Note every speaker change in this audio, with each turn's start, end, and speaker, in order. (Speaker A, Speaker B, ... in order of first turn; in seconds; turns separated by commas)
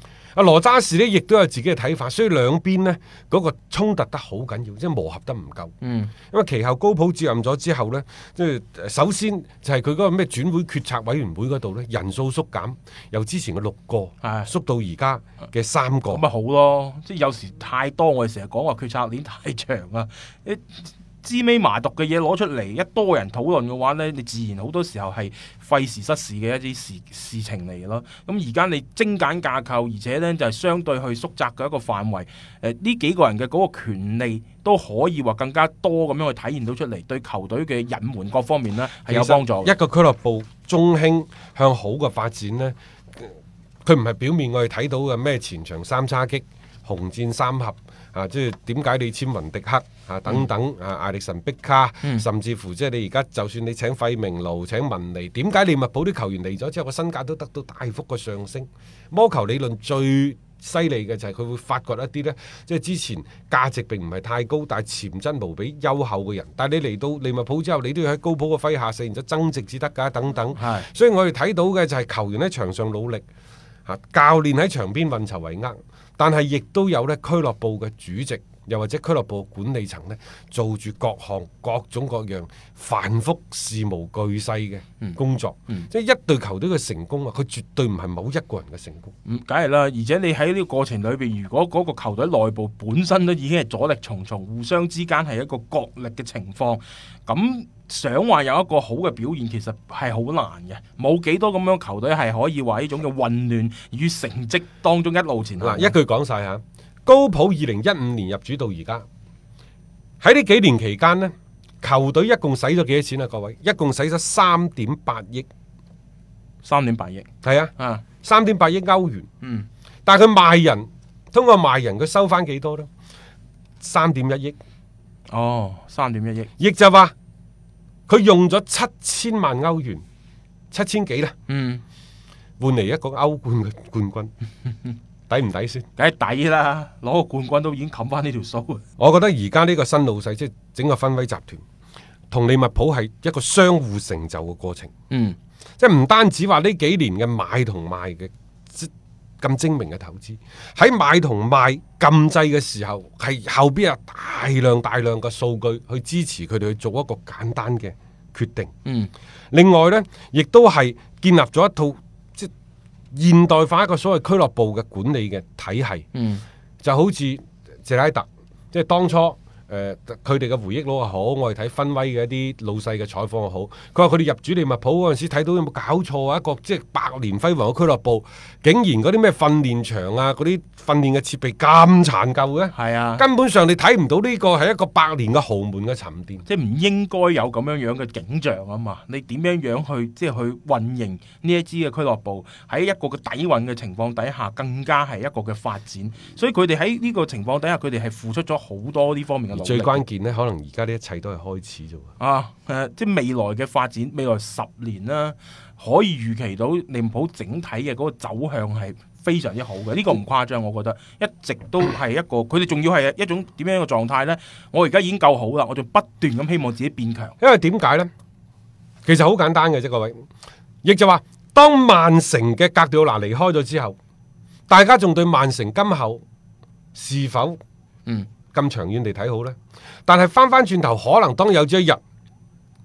Speaker A: 0.3-5.7, Speaker B: 5.8-6.1, Speaker A: 6.3-16.2, Speaker B: 14.2-14.5, Speaker B: 16.1-39.7, Speaker A: 39.1-73.2, Speaker B: 70.6-70.9, Speaker A: 73.8-89.1, Speaker B: 89.3-105.9, Speaker A: 105.6-109.0, Speaker A: 110.2-115.5, Speaker B: 116.6-117.3, Speaker A: 117.4-119.3, Speaker B: 117.8-118.0, Speaker B: 119.4-119.7, Speaker A: 120.1-122.9, Speaker A: 123.8-124.6, Speaker B: 125.3-126.5, Speaker A: 126.6-127.1, Speaker A: 128.1-130.0, Speaker A: 130.7-131.3, Speaker B: 131.5-131.8, Speaker A: 132.6-134.3, Speaker A: 135.3-135.8, Speaker B: 135.9-138.8, Speaker A: 139.0-141.6, Speaker A: 142.3-144.9, Speaker B: 145.1-145.3, Speaker A: 145.8-158.7, Speaker B: 158.8-159.1, Speaker A: 159.5-162.5, Speaker A: 163.1-166.1, Speaker B: 166.2-166.4, Speaker A: 166.8-186.4, Speaker B: 182.8-183.2, Speaker B: 186.4-200.0, Speaker A: 199.5-202.1, Speaker B: 202.2-217.3, Speaker A: 217.4-218.1, Speaker A: 219.1-220.2, Speaker A: 220.8-224.0, Speaker A: 224.7-226.2, Speaker A: 226.9-227.6, Speaker A: 228.5-232.0